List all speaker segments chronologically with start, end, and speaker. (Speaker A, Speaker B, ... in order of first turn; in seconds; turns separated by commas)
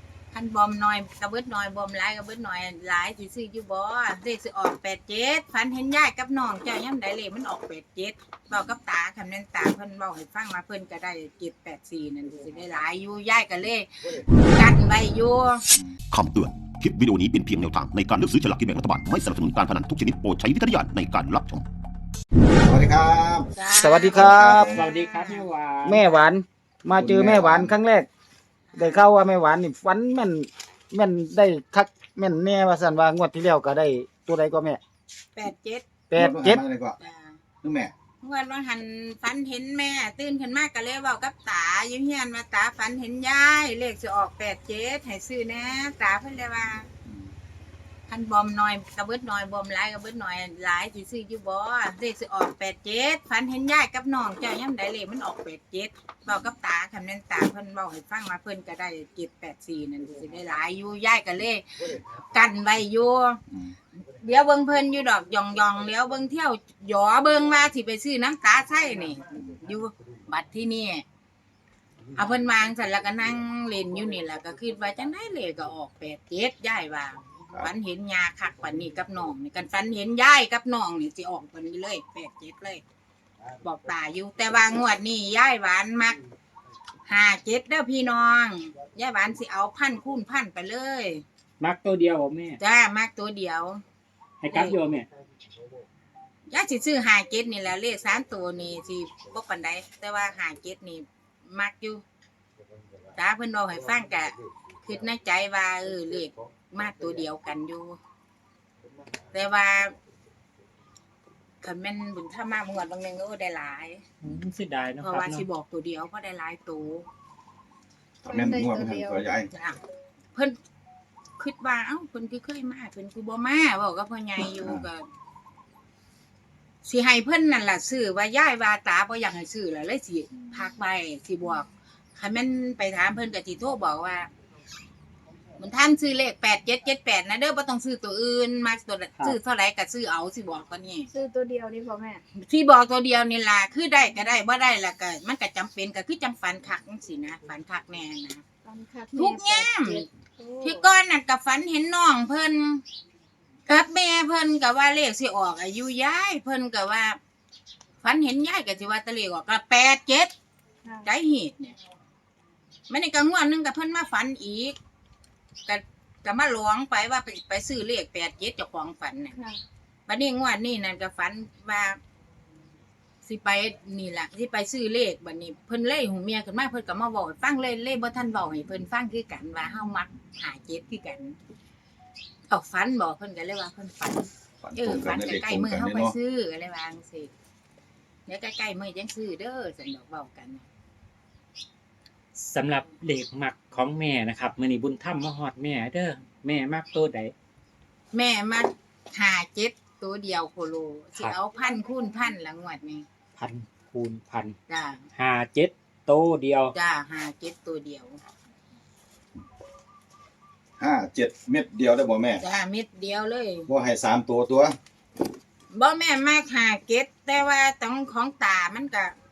Speaker A: 0.3-15.6, Speaker B: 16.1-21.6, Speaker C: 22.6-23.5, Speaker A: 23.5-25.5, Speaker D: 23.8-24.8, Speaker C: 24.1-24.9, Speaker E: 24.7-26.3, Speaker D: 25.8-28.1, Speaker C: 26.9-27.7, Speaker A: 28.7-29.0, Speaker D: 28.7-34.8, Speaker A: 35.3-35.9, Speaker D: 36.1-36.6, Speaker C: 36.1-37.0, Speaker A: 37.0-37.4, Speaker C: 37.6-37.9, Speaker A: 38.2-46.9, Speaker C: 47.0-47.3, Speaker A: 48.1-63.4, Speaker A: 64.0-71.0, Speaker A: 72.1-82.8, Speaker A: 83.6-86.2, Speaker A: 87.0-91.2, Speaker E: 91.6-92.6, Speaker A: 92.6-93.8, Speaker E: 94.4-95.1, Speaker A: 94.5-94.8, Speaker A: 96.5-102.0, Speaker A: 103.1-108.0, Speaker A: 109.3-109.9, Speaker A: 111.6-114.0, Speaker E: 114.2-115.5, Speaker A: 115.0-117.1, Speaker C: 118.2-119.5, Speaker F: 118.2-119.2, Speaker A: 119.5-119.8, Speaker A: 121.4-125.0, Speaker C: 124.5-124.9, Speaker A: 126.8-134.3, Speaker A: 135.6-141.1, Speaker F: 141.1-142.2, Speaker A: 142.3-148.4, Speaker F: 148.6-150.8, Speaker A: 149.1-150.0, Speaker A: 150.6-152.8, Speaker A: 153.7-157.2, Speaker A: 158.0-160.3, Speaker A: 161.0-161.8, Speaker A: 162.9-164.8, Speaker A: 165.7-169.4, Speaker F: 169.3-169.6, Speaker A: 170.1-172.0, Speaker A: 173.2-181.3, Speaker A: 182.5-187.3, Speaker C: 184.6-186.1, Speaker A: 188.3-190.6, Speaker E: 192.3-197.3, Speaker A: 198.1-203.0, Speaker E: 203.4-204.6, Speaker A: 204.7-205.0, Speaker E: 205.1-206.7, Speaker A: 206.7-208.2, Speaker C: 210.8-212.4, Speaker A: 212.4-213.7, Speaker C: 213.7-214.8, Speaker A: 215.7-219.2